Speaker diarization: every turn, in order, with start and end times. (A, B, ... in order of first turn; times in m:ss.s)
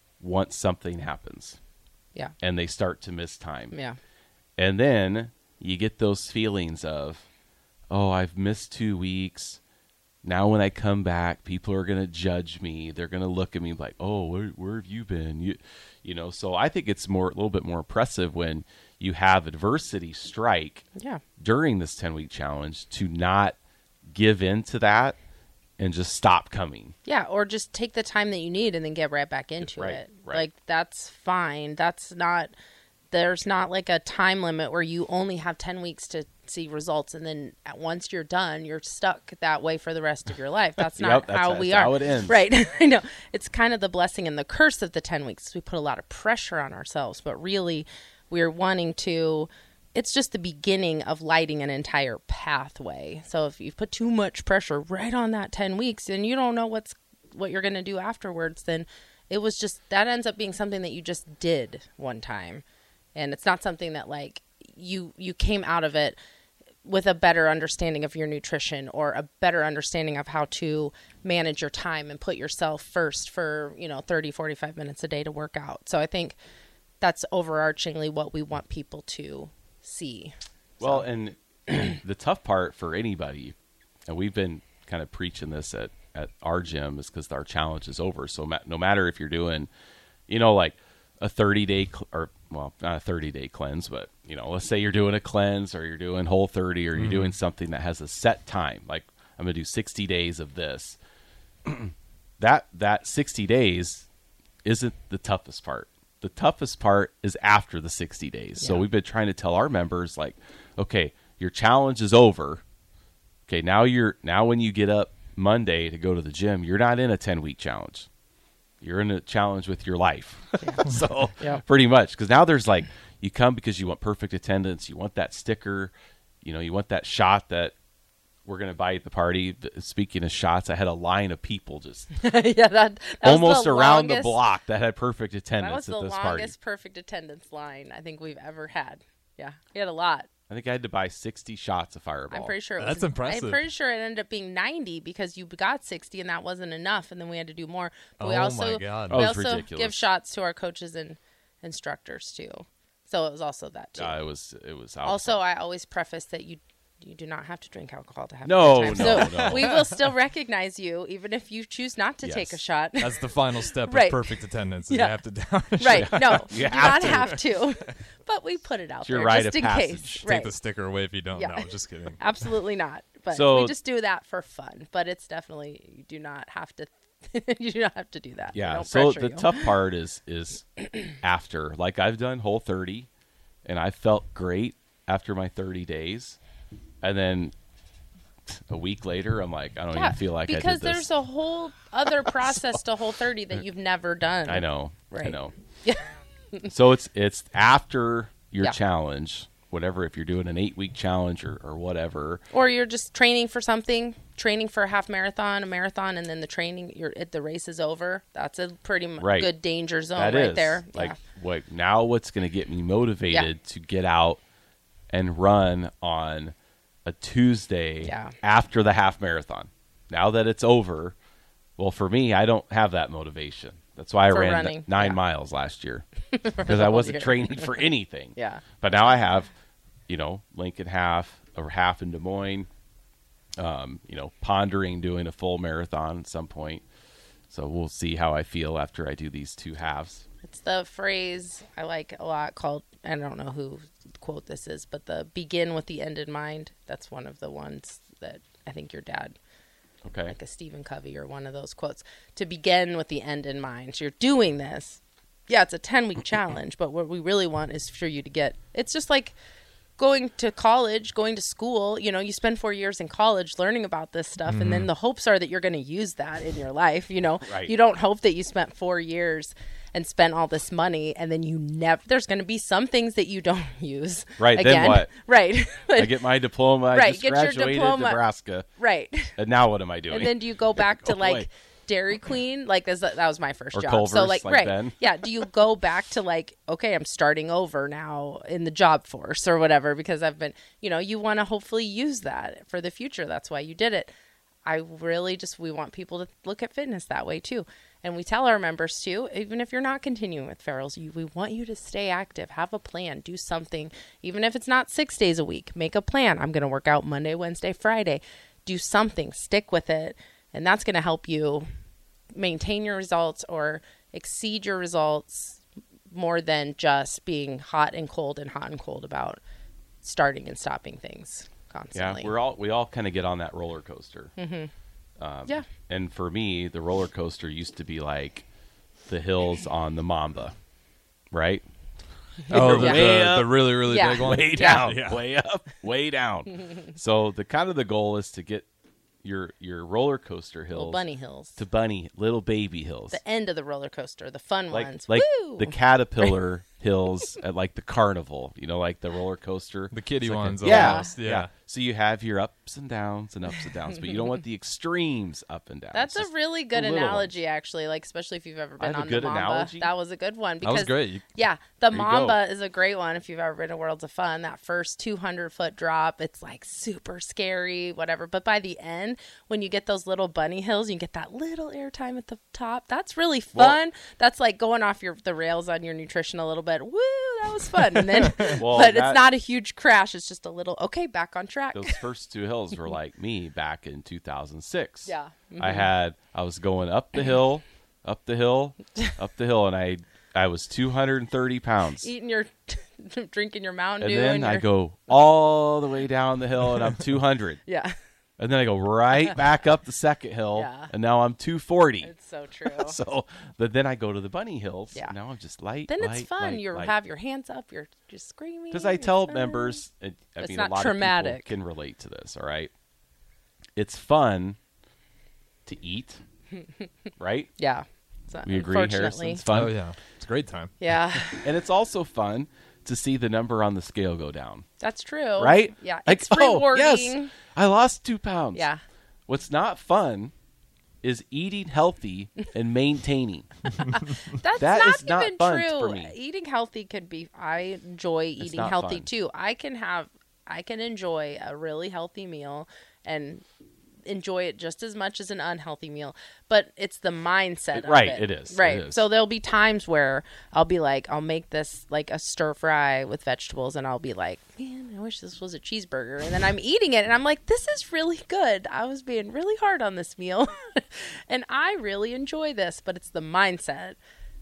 0:00.2-0:01.6 A
0:02.4-0:03.7 A
0:03.7-0:04.0 B
0:04.6-0:07.2 A
0:07.9-0:09.6 A
0:10.2-0:20.8 A
0:21.0-0:21.2 B
0:21.4-0:23.6 A
0:24.1-0:25.2 A
0:25.8-0:26.9 A
0:27.0-0:32.5 B
0:29.6-0:30.4 A
0:33.1-1:02.6 B
0:40.9-0:42.4 A
1:03.1-1:06.2 B
1:06.8-1:16.4 B
1:17.0-1:21.0 B
1:20.8-1:23.5 A
1:24.1-1:29.7 A
1:30.3-1:41.0 A
1:37.0-1:37.3 C
1:41.6-1:44.1 A
1:44.6-1:52.6 A
1:48.6-1:48.8 B
1:53.5-1:58.1 A
1:58.8-2:07.7 A
2:08.4-2:12.1 A
2:12.2-2:14.4 B
2:13.2-2:16.5 A
2:15.6-2:20.3 B
2:20.5-2:22.5 A
2:22.3-2:34.2 B
2:22.8-2:23.6 C
2:28.2-2:29.2 C
2:29.1-2:30.1 A
2:34.0-2:35.4 A
2:35.0-2:43.3 B
2:38.4-2:39.8 A
2:38.9-2:39.8 C
2:42.2-2:42.6 A
2:43.0-2:47.5 C
2:43.8-2:44.3 B
2:44.9-2:45.1 B
2:45.8-2:50.5 B
2:45.9-2:47.3 A
2:49.0-2:50.3 A
2:50.2-2:52.3 C
2:51.4-2:51.7 B
2:52.2-2:59.7 B
2:53.3-2:53.7 A
2:58.5-3:03.1 A
3:03.6-3:06.4 A
3:07.0-3:07.5 A
3:08.5-3:11.1 A
3:09.9-3:16.7 B
3:14.4-3:15.5 A
3:16.7-3:22.4 A
3:22.5-3:31.2 B
3:29.2-3:29.5 A
3:30.1-3:34.4 A
3:35.1-3:36.5 A
3:37.0-3:41.1 A
3:38.0-3:38.3 B
3:41.8-3:46.0 A
3:44.3-3:45.2 B
3:46.3-3:47.7 B
3:46.6-3:49.5 A
3:48.3-3:48.6 B
3:50.1-3:52.7 A
3:53.6-3:56.8 A
3:57.5-4:00.2 A
4:00.4-4:09.4 B
4:10.0-4:10.3 A
4:10.2-4:19.3 B
4:20.0-4:36.2 B
4:24.5-4:24.9 C
4:27.4-4:27.7 A
4:34.4-4:35.1 A
4:36.0-4:38.7 A
4:36.9-4:38.2 B
4:38.8-4:39.4 B
4:39.4-4:41.5 A
4:40.1-4:54.1 B
4:43.7-4:45.0 A
4:54.6-5:11.7 B
5:12.3-5:19.4 B
5:20.0-5:22.3 B
5:21.9-5:24.3 A
5:24.4-5:24.7 B
5:25.2-5:28.4 A
5:29.1-5:30.5 A
5:31.3-5:31.6 A
5:32.4-5:33.1 B
5:32.5-5:38.6 A
5:32.5-5:35.2 C
5:33.8-5:34.9 B
5:39.2-5:41.0 A
5:40.7-5:41.6 B
5:41.6-5:43.2 A
5:43.1-5:46.3 B
5:44.7-5:57.3 A
5:49.9-5:51.5 C
5:50.6-5:51.1 B
5:55.9-6:22.0 B
5:58.8-5:59.9 A
6:00.6-6:01.2 C
6:01.9-6:02.4 A
6:18.4-6:19.2 A
6:21.7-6:32.1 A
6:25.0-6:25.8 B
6:32.0-6:34.6 B
6:34.0-6:37.6 A
6:37.6-6:38.0 B
6:38.4-6:42.1 A
6:40.5-6:40.9 B
6:42.0-6:43.0 B
6:42.6-6:46.9 A
6:45.9-6:49.8 B
6:48.7-6:52.7 A
6:50.4-6:51.5 B
6:53.8-6:54.6 A
6:55.6-6:56.2 A
6:57.2-6:57.5 A
6:57.6-6:59.4 B
6:58.4-6:59.7 A
6:59.5-7:00.7 C
7:00.8-7:01.5 B
7:01.3-7:04.6 A
7:04.8-7:07.3 B
7:05.4-7:08.7 A
7:08.5-7:08.8 B
7:09.3-7:10.3 A
7:11.0-7:13.5 A
7:14.0-7:23.4 B
7:14.6-7:16.1 A
7:18.4-7:19.1 A
7:24.0-7:44.0 B
7:27.7-7:29.0 A